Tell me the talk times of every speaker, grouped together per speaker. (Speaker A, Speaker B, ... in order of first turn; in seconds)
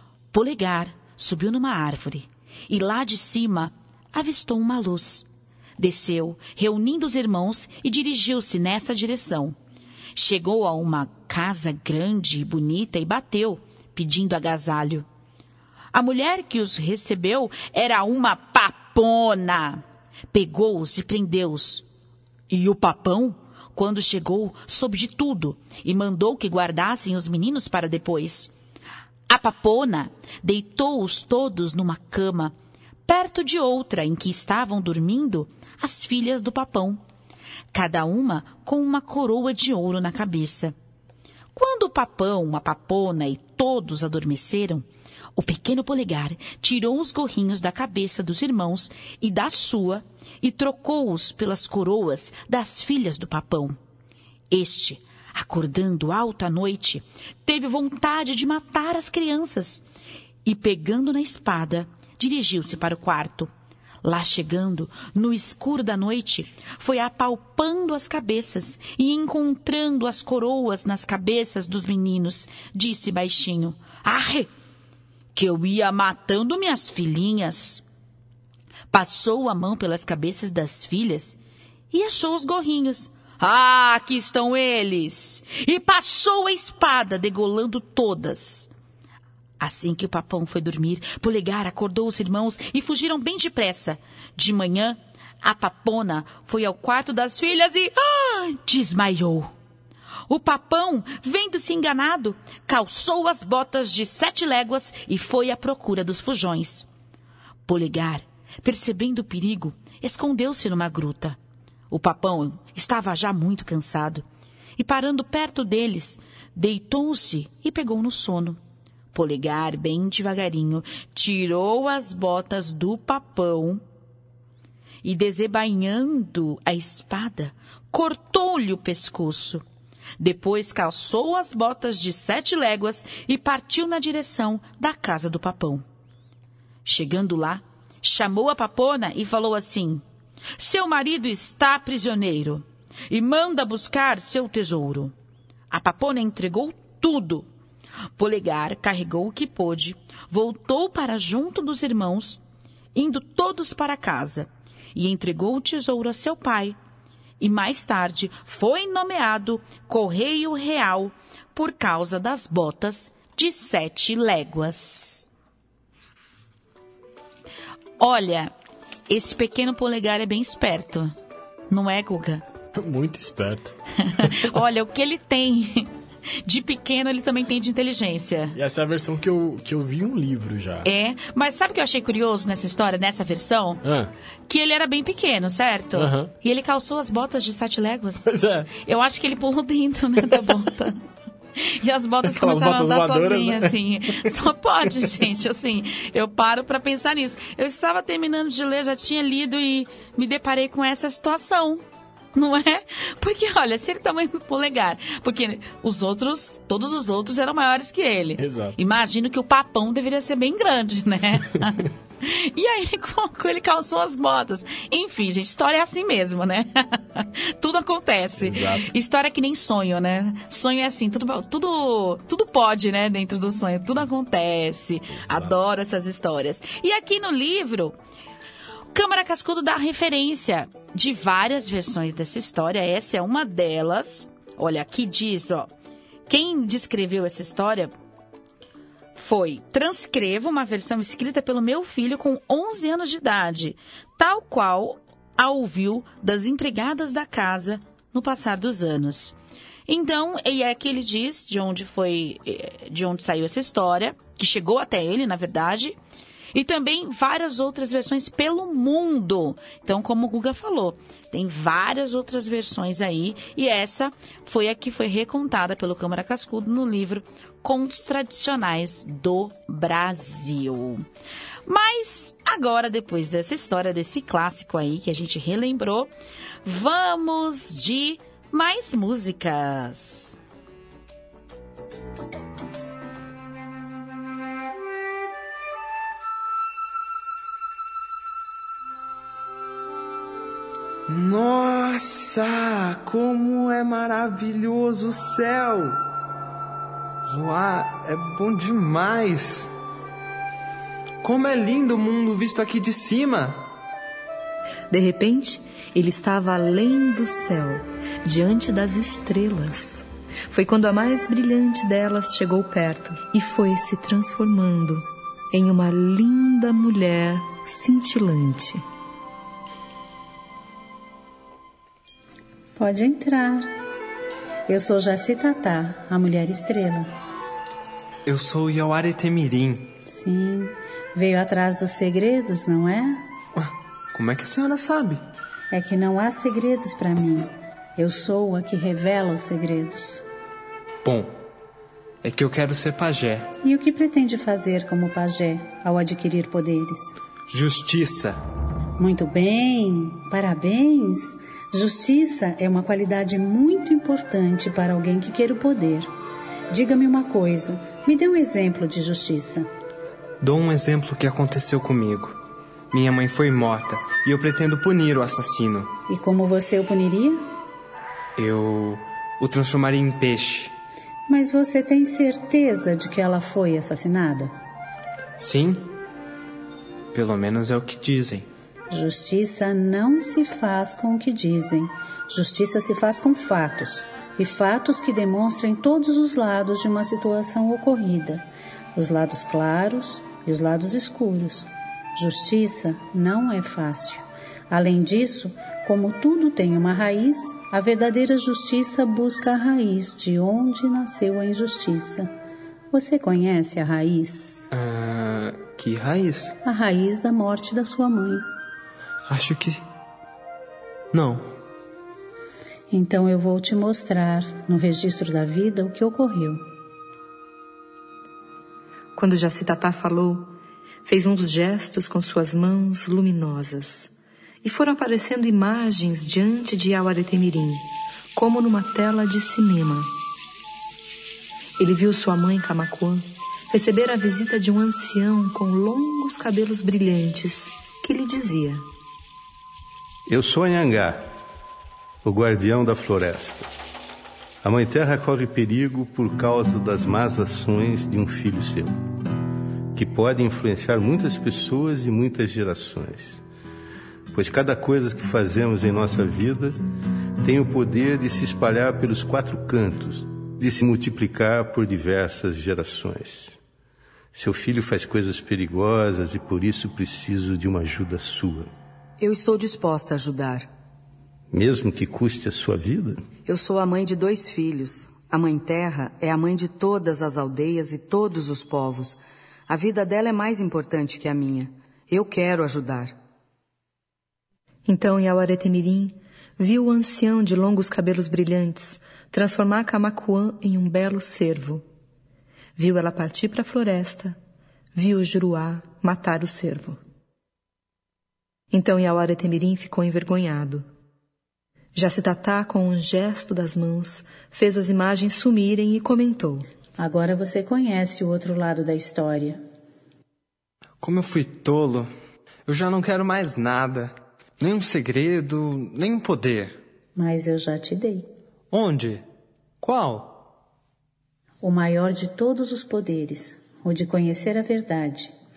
Speaker A: 0.3-5.3, 5.8-9.6, 10.2-15.1, 15.9-21.8, 22.5-28.5, 29.3-32.5, 33.1-37.0, 37.7-40.7, 41.5-53.8, 54.5-59.8, 60.4-63.5, 64.0-74.5, 75.3-77.8, 78.9-81.4, 81.9-88.7, 89.6-99.5, 100.3-106.9, 107.7-111.4, 111.9-114.2, 114.8-118.6, 119.1-123.8, 125.0-129.6, 130.2-135.8, 136.8-140.0, 140.6-145.1, 145.7-147.5, 148.2-152.4, 152.9-156.8, 157.4-165.2, 168.0-168.5, 169.1-171.1, 171.7-172.4, 174.1-175.9, 176.4-178.5, 180.8-183.8, 184.5-190.9, 191.6-201.8, 202.3-228.0, 228.9-235.7, 236.3-237.9, 239.1-249.3, 249.9-255.9, 256.5-271.0, 271.7-276.1, 276.6-280.4
Speaker B: 172.7-173.7, 178.5-180.9, 183.8-184.1, 185.9-186.3, 188.2-188.7, 192.2-193.7, 208.4-208.8, 218.4-218.8
Speaker C: 291.1-295.9, 297.2-299.7, 301.2-303.6, 328.2-329.9, 333.6-335.2, 341.0-341.3, 342.2-343.5, 347.5-348.4, 360.4-362.4, 362.9-365.9, 368.4-370.7, 375.4-375.9, 377.1-378.5, 404.7-406.6, 409.3-409.8, 411.1-411.4, 511.0-512.1, 512.6-516.8, 518.7-519.2, 519.8-520.4
Speaker D: 304.9-318.8, 419.1-420.5, 421.0-424.1, 424.6-430.1, 431.8-438.9, 484.9-491.8, 492.8-494.4, 494.9-497.0, 498.7-500.9, 501.9-506.7
Speaker E: 322.8-323.7, 324.7-327.1, 330.1-333.2, 335.7-340.2, 343.6-347.1, 349.0-356.1, 356.7-359.7, 366.1-367.4, 371.3-374.5, 378.9-402.3, 402.9-404.6, 406.6-408.4, 412.9-416.6, 507.0-509.6, 517.1-518.3, 521.6-525.3
Speaker F: 440.3-441.3, 442.2-443.7, 444.6-448.9, 449.9-453.4, 454.3-456.8, 457.4-463.6, 464.3-468.7, 471.5-473.3
Speaker G: 469.2-470.7, 473.4-483.1